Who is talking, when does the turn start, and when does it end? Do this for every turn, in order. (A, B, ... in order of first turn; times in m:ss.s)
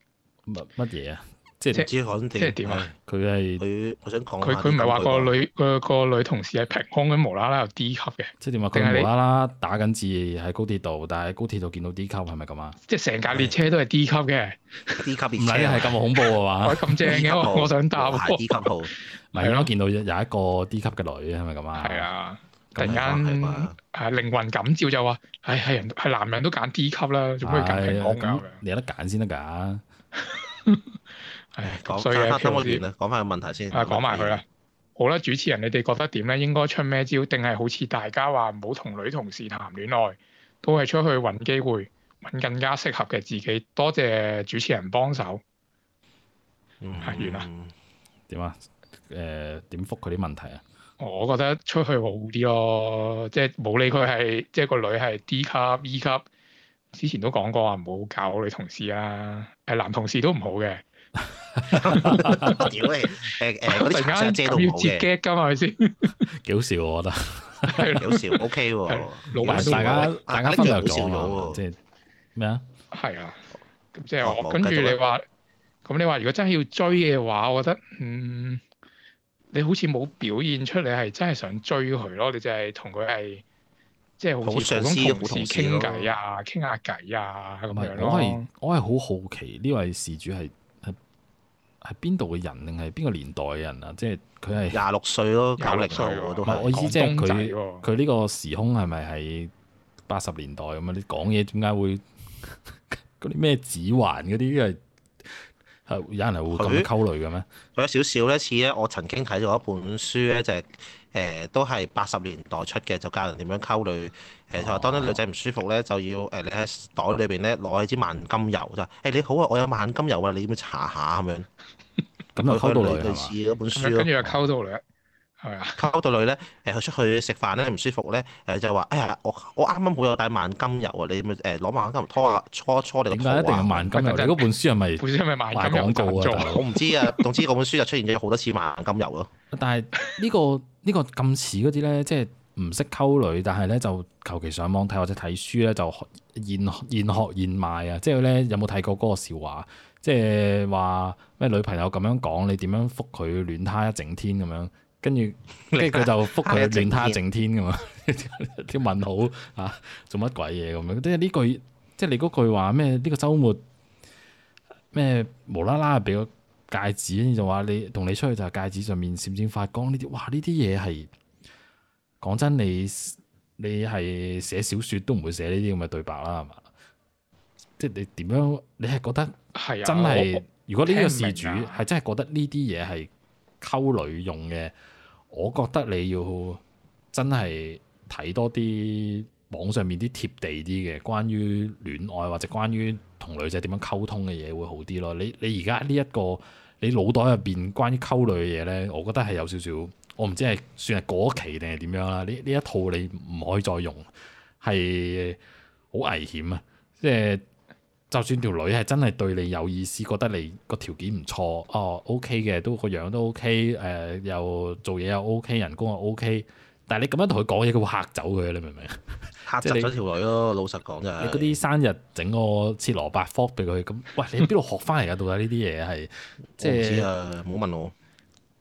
0:00.5-0:01.9 A
0:01.8-0:02.9 B
0:01.8-0:02.9 C
0:03.0-0:03.6 A
0:03.6-0:05.3 C
0:04.4-0:09.1 B
0:08.4-0:12.8 A
0:12.9-0:15.1 B
0:15.0-0:15.9 C
0:15.4-0:17.1 A
0:16.6-0:19.7 B
0:17.0-0:18.9 C
0:19.3-0:22.1 A
0:21.8-0:28.6 B
0:22.7-0:23.0 A
0:22.8-0:23.7 C
0:27.4-0:29.8 A
0:30.2-0:31.0 B
0:31.5-0:32.8 B
0:31.6-0:34.4 C
0:33.7-0:34.4 B
0:35.0-0:45.4 B
0:46.8-0:47.7 C
0:47.0-0:47.5 B
0:48.3-0:50.6 A
0:51.0-0:56.2 B
0:56.9-1:00.8 B
1:01.6-1:02.7 A
1:01.7-1:05.1 C
1:01.9-1:02.7 B
1:03.3-1:06.3 B
1:06.4-1:07.9 A
1:07.7-1:10.1 B
1:07.9-1:11.6 C
1:09.4-1:11.8 A
1:12.4-1:12.6 A
1:12.9-1:15.2 B
1:14.2-1:15.0 C
1:15.8-1:18.6 B
1:19.5-1:23.4 B
1:24.2-1:28.5 B
1:24.4-1:26.1 C
1:27.7-1:31.0 A
1:31.8-1:34.8 A
1:34.7-1:36.7 C
1:35.6-1:37.8 B
1:36.4-1:39.5 A
1:40.1-1:47.5 A
1:46.5-1:46.9 C
1:47.7-2:01.5 C
1:54.6-1:55.2 A
2:02.3-2:03.3 A
2:02.5-2:04.1 C
2:03.7-2:04.8 B
2:05.4-2:05.8 B
2:05.8-2:13.9 C
2:13.1-2:16.6 A
2:13.9-2:14.5 B
2:15.0-2:17.3 B
2:16.4-2:19.3 C
2:19.5-2:43.6 A
2:35.7-2:37.2 C
2:44.9-2:51.1 A
2:52.2-2:56.6 A
2:57.8-3:03.1 A
2:59.5-3:01.8 B
3:03.6-3:04.7 A
3:05.3-3:06.6 A
3:07.1-3:24.1 A
3:24.6-3:25.4 A
3:25.9-3:27.4 A
3:28.1-3:39.9 A
3:39.4-3:41.6 C
3:41.2-3:47.1 A
3:46.6-3:47.9 C